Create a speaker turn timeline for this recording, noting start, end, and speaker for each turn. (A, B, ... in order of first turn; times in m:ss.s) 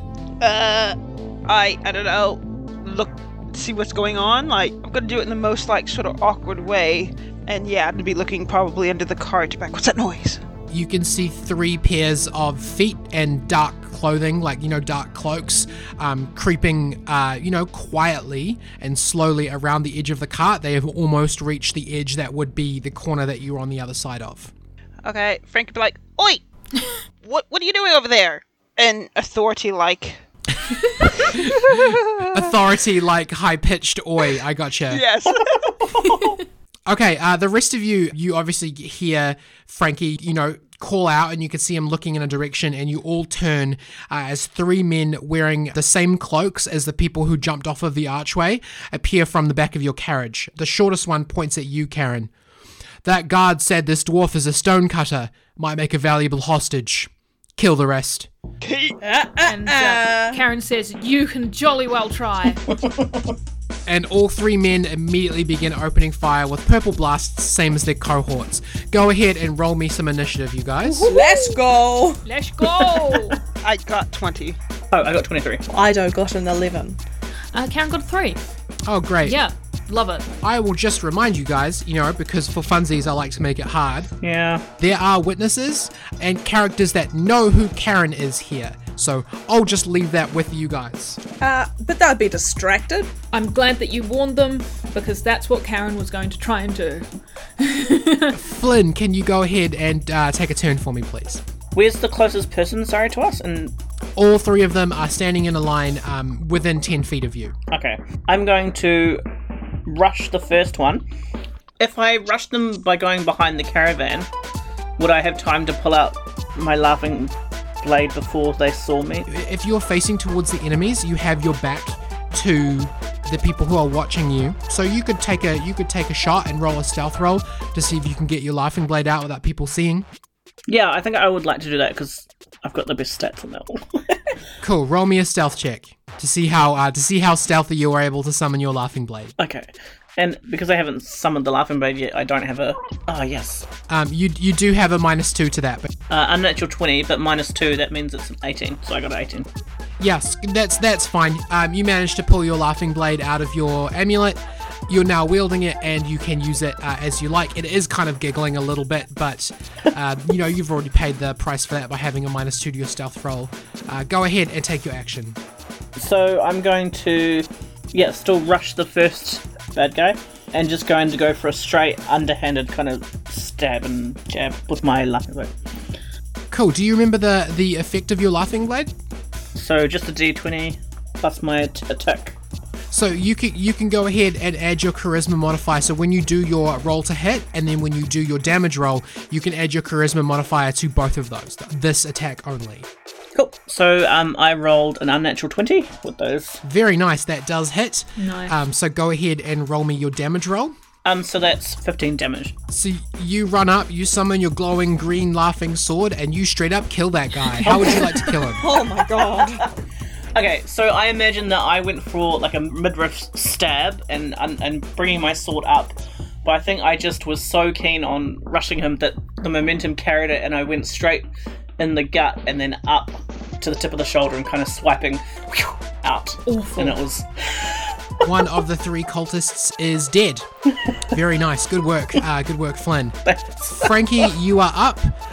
0:00.4-0:10.4 A
0:10.7-0:24.5 B
0:25.0-0:26.4 A
0:27.2-0:30.2 A
0:31.1-0:32.5 A
0:31.2-0:35.0 B
0:34.9-0:35.8 A
0:35.9-0:36.4 C
0:36.0-0:36.3 D
0:36.9-0:52.3 B
0:53.0-0:58.3 B
0:58.6-0:59.0 A
0:59.0-1:00.4 E
0:59.5-1:02.6 D
1:02.7-1:03.3 C
1:03.9-1:11.1 B
1:11.0-1:11.6 D
1:11.0-1:13.3 E
1:12.2-1:13.4 D
1:13.6-1:14.6 A
1:14.9-1:15.7 C
1:15.7-1:17.0 E
1:17.5-1:18.5 D
1:18.8-1:19.4 B
1:19.2-1:20.3 D
1:20.4-1:24.1 B
1:24.2-1:24.6 C
1:24.8-1:31.2 B
1:31.4-1:33.1 E
1:33.3-1:38.4 D
1:38.4-1:41.4 B
1:41.8-1:43.8 C
1:44.2-1:47.6 B
1:47.7-1:49.2 C
1:49.9-1:51.0 C
1:51.8-1:54.3 C
1:55.0-1:59.3 C
1:59.3-2:10.1 B
2:10.7-2:14.2 C
2:14.6-2:19.4 B
2:19.4-2:23.7 C
2:23.9-2:25.9 B
2:26.1-2:29.5 C
2:30.0-2:45.4 B
2:46.0-2:55.5 C
2:56.5-2:58.9 B
2:59.6-3:02.4 C
3:02.9-3:12.9 B
3:13.4-3:16.6 C
3:16.6-3:20.8 B
3:18.2-3:18.6 D
3:21.0-3:22.5 C
3:22.7-3:28.7 B
3:27.6-3:28.5 C
3:28.5-3:29.7 E
3:29.2-3:29.4 C
3:30.4-3:41.3 C
3:41.8-3:48.0 C
3:46.5-3:47.0 D
3:48.2-3:50.5 B
3:51.1-3:55.1 B
3:53.3-3:54.0 C